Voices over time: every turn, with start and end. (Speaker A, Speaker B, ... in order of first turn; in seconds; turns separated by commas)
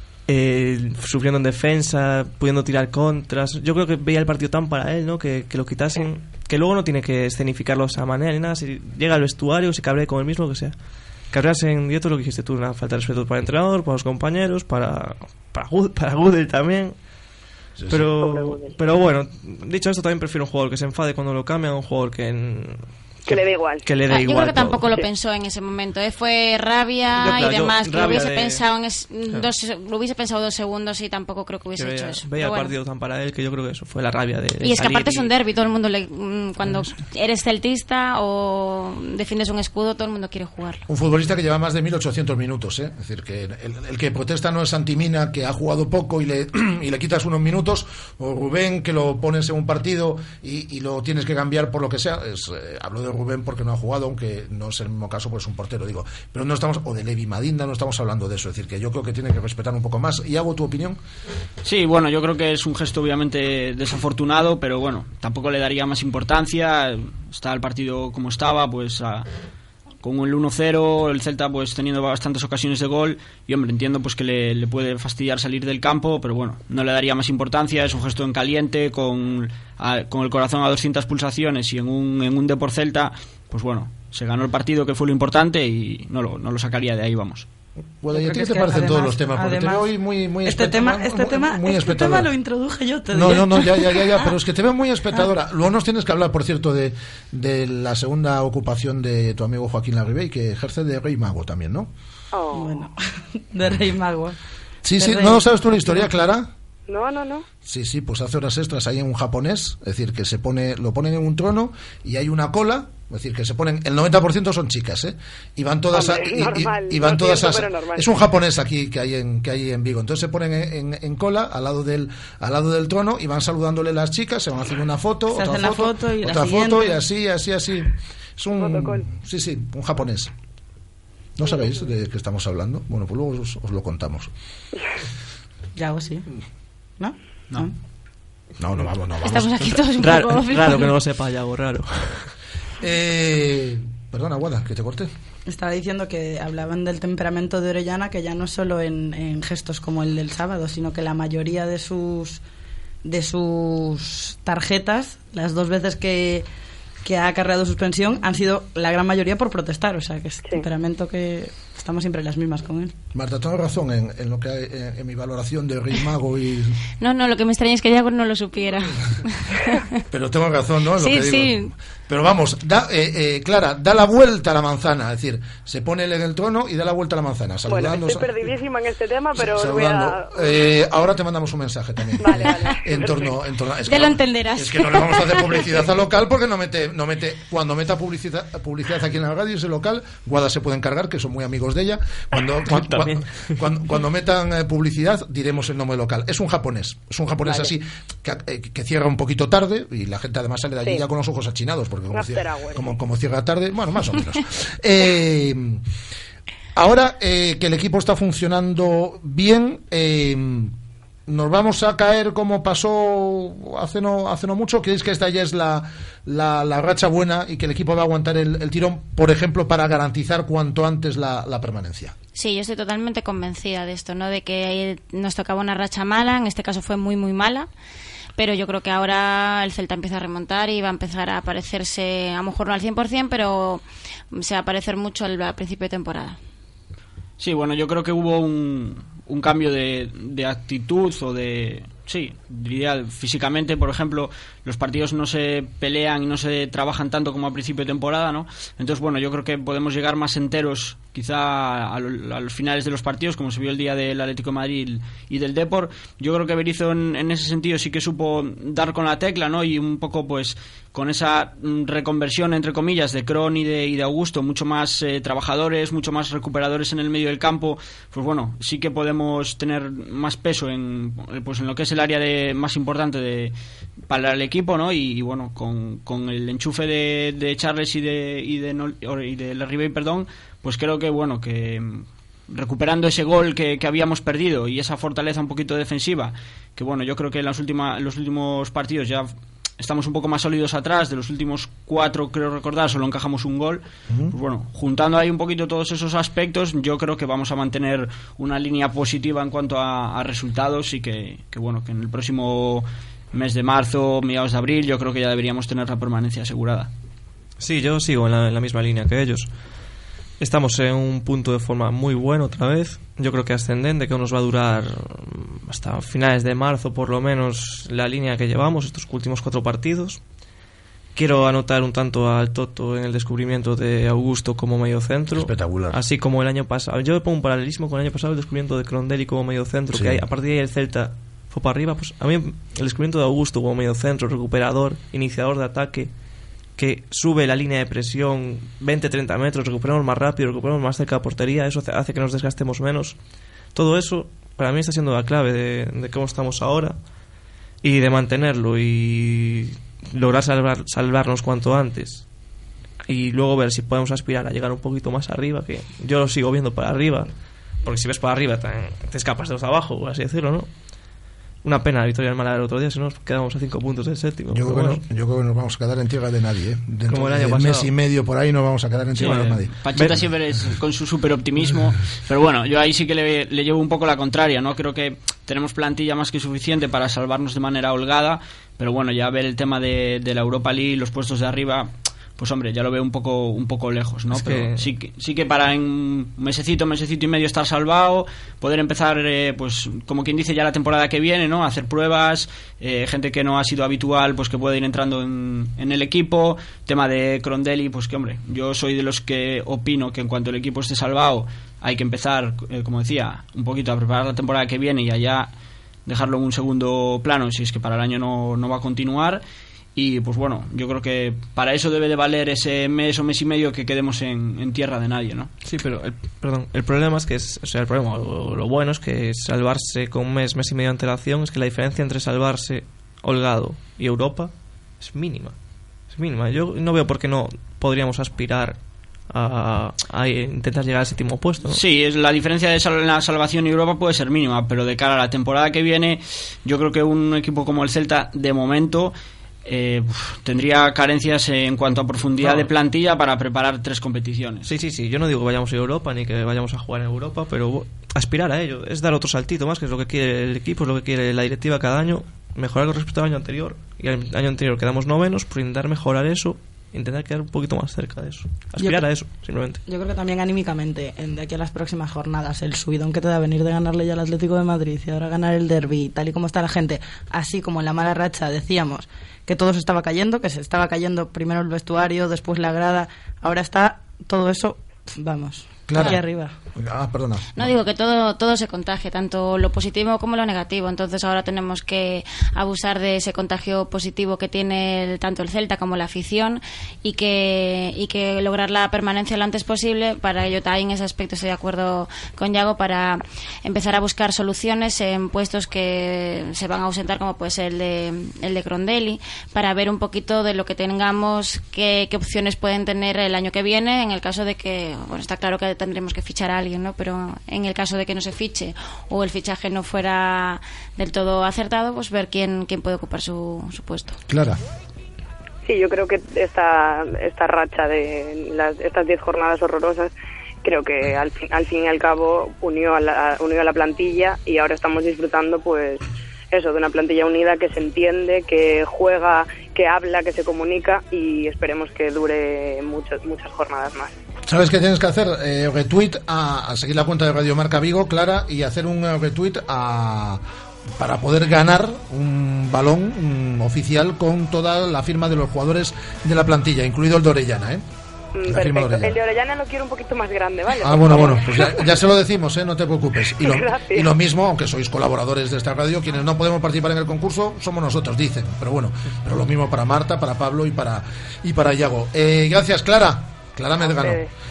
Speaker A: 0.3-10.8, Speaker A: 11.3-16.9, Speaker B: 17.8-18.0, Speaker A: 17.9-24.9, Speaker C: 18.2-18.7, Speaker C: 23.3-23.9, Speaker D: 24.0-32.7, Speaker A: 27.1-28.6, Speaker A: 31.8-35.3, Speaker D: 34.6-40.8, Speaker A: 36.6-37.0, Speaker B: 40.9-61.0, Speaker E: 61.6-69.3, Speaker E: 70.0-87.5, Speaker B: 88.0-92.3, Speaker F: 88.1-89.9, Speaker F: 90.4-94.2, Speaker B: 93.1-101.9, Speaker C: 102.3-102.8, Speaker F: 102.5-104.3, Speaker B: 104.8-106.5, Speaker F: 104.9-106.0, Speaker C: 106.9-107.5, Speaker B: 107.6-130.3, Speaker C: 115.9-118.2, Speaker F: 125.3-127.0, Speaker C: 128.6-129.1, Speaker B: 131.4-134.3, Speaker F: 135.7-136.2, Speaker F: 137.0-137.7, Speaker B: 138.6-139.7, Speaker D: 139.2-140.9, Speaker A: 139.9-142.3, Speaker B: 142.8-145.1, Speaker F: 145.5-152.4, Speaker F: 153.0-156.4, Speaker F: 157.0-162.9, Speaker B: 163.1-166.8, Speaker D: 167.0-170.0, Speaker B: 170.1-178.3, Speaker D: 170.9-171.7, Speaker C: 177.7-180.6, Speaker B: 179.3-205.8, Speaker C: 182.2-183.4, Speaker D: 183.8-185.7, Speaker A: 192.6-193.3, Speaker C: 197.4-197.7, Speaker C: 202.1-202.9, Speaker B: 206.7-210.7, Speaker B: 211.3-222.1, Speaker D: 222.3-227.7, Speaker D: 228.3-236.4, Speaker E: 237.4-273.5, Speaker E: 274.1-306.9, Speaker A: 307.6-309.5, Speaker A: 310.4-320.2, Speaker A: 321.1-336.1, Speaker B: 325.3-326.0, Speaker B: 329.9-330.3, Speaker A: 336.8-343.2, Speaker A: 343.7-347.0, Speaker A: 347.8-352.3, Speaker A: 353.1-360.7, Speaker A: 361.6-365.0, Speaker B: 364.5-370.3, Speaker A: 367.1-367.9, Speaker E: 369.1-405.5, Speaker A: 384.3-384.8, Speaker E: 406.1-409.4, Speaker E: 409.9-415.5, Speaker A: 415.6-431.8, Speaker E: 431.6-439.1, Speaker E: 439.6-444.7, Speaker A: 442.4-442.6, Speaker A: 444.6-459.8, Speaker F: 458.8-459.3, Speaker F: 459.8-476.5, Speaker B: 475.9-476.2, Speaker B: 476.7-477.7, Speaker D: 477.5-514.2, Speaker B: 514.3-514.6, Speaker C: 515.6-520.1, Speaker C: 520.6-534.1, Speaker B: 534.5-540.4, Speaker B: 541.0-547.8, Speaker C: 548.3-551.8, Speaker B: 548.5-549.1, Speaker B: 550.8-564.2, Speaker C: 553.4-554.1, Speaker C: 563.9-564.3